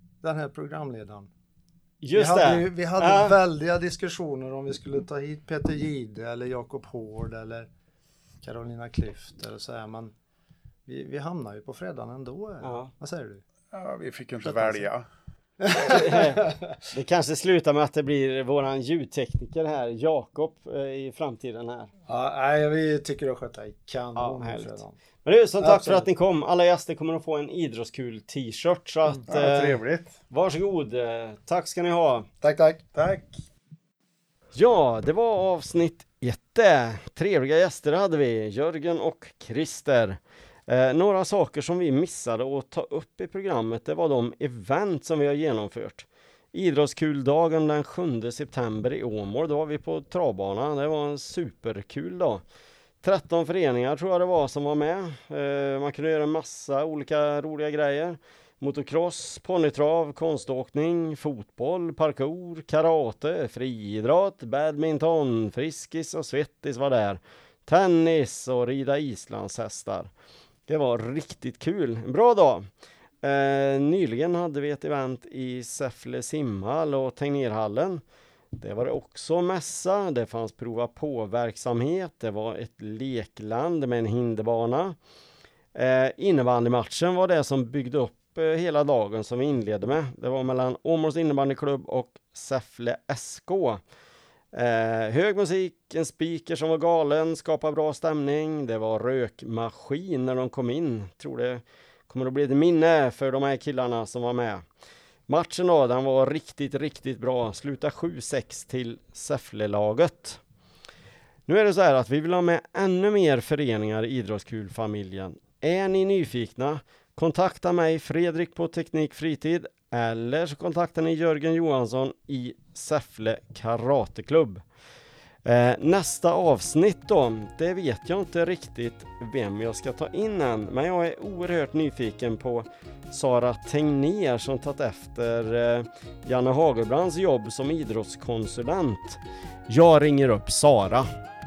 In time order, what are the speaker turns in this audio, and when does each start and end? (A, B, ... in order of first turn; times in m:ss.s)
0:00.2-0:01.3 A
0:02.0-0:03.4 B
0:02.1-0:07.7 A
0:08.4-0:10.1 A
0:10.8-0:13.4 A
0:12.6-0:12.9 B
0:13.7-0:15.0 C
0:14.4-0:14.9 A
0:15.6-0:16.7 A
0:15.8-0:21.9 B
0:22.1-0:25.0 A
0:24.2-0:32.3 B
0:25.6-0:26.1 A
0:29.3-0:30.2 C
0:32.4-0:32.8 A
0:32.9-0:33.4 C
0:34.5-0:52.4 B
0:53.0-1:10.1 B
1:10.7-1:12.7 B
1:13.2-1:18.0 B
1:18.5-1:25.0 B
1:25.7-1:33.8 B
1:34.5-1:44.6 B
1:45.3-1:50.4 B
1:51.5-2:04.6 B
2:05.4-2:21.1 B